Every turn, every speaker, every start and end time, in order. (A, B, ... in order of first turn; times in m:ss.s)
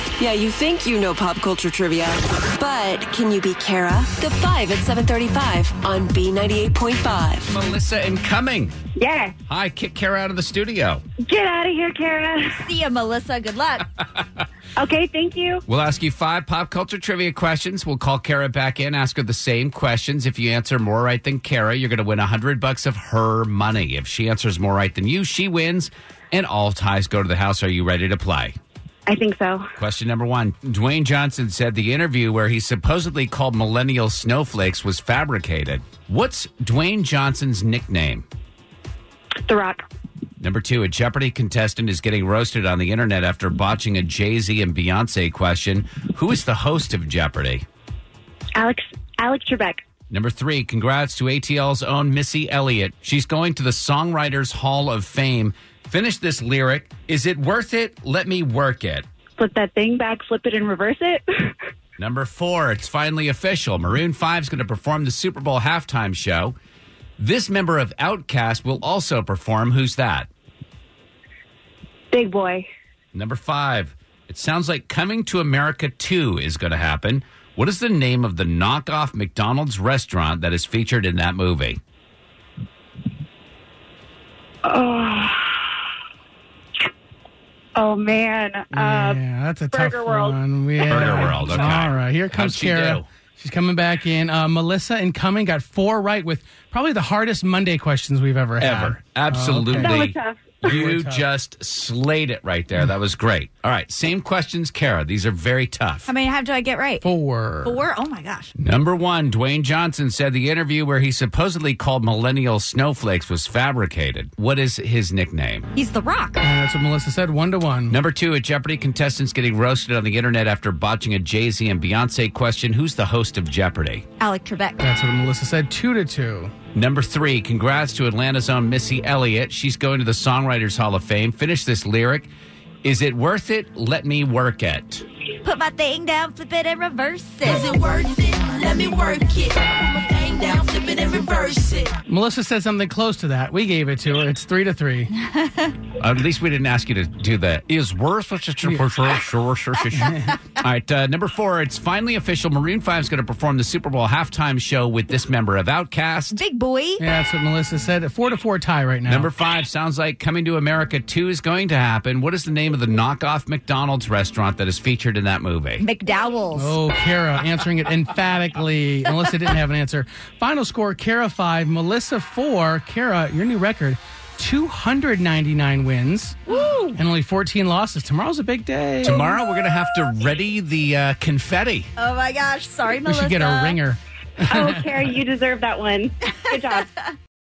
0:00.2-0:07.5 A
0:07.5-0:08.7 B
0:09.0-0:09.3 C
0:09.5-0:11.0 B
0:11.2-0:12.6 C
0:12.6-0:13.9 D
0:14.8-0:15.6 C
0:15.7-0:28.6 B
0:29.1-0:29.6 C
0:29.8-0:38.2 B
0:39.4-0:39.8 C
0:40.4-0:47.6 B
0:48.6-0:49.8 C
0:50.1-0:59.0 B
0:59.4-1:01.5 C
1:02.0-1:06.6 B
1:07.2-1:10.3 B
1:12.1-1:12.7 C
1:13.1-1:21.8 B
1:24.6-1:25.6 C
1:27.8-1:29.2 C
1:28.7-1:40.0 E
1:29.7-1:30.4 C
1:30.9-1:31.4 C
1:30.9-1:33.1 B
1:38.6-1:46.1 B
1:39.8-1:40.6 C
1:40.6-1:41.2 E
1:46.1-1:47.0 D
1:47.0-1:47.8 E
1:47.6-1:48.5 D
1:48.6-1:55.7 B
1:55.8-1:56.4 D
1:56.4-1:58.0 E
1:57.9-2:04.0 B
2:04.2-2:04.8 D
2:04.8-2:06.5 E
2:06.7-2:12.3 B
2:12.8-2:15.0 B
2:15.4-2:17.8 D
2:17.7-2:21.9 F
2:22.0-2:25.1 E
2:26.0-2:36.4 B
2:28.6-2:28.9 E
2:29.9-2:30.4 E
2:36.3-2:37.0 D
2:37.0-2:39.3 E
2:39.1-2:45.8 B
2:45.8-2:46.8 D
2:46.5-2:56.4 E
2:56.5-2:57.0 D
2:56.9-2:59.3 E
2:59.0-3:01.9 B
3:02.0-3:03.8 D
3:03.0-3:05.1 E
3:04.5-3:06.9 C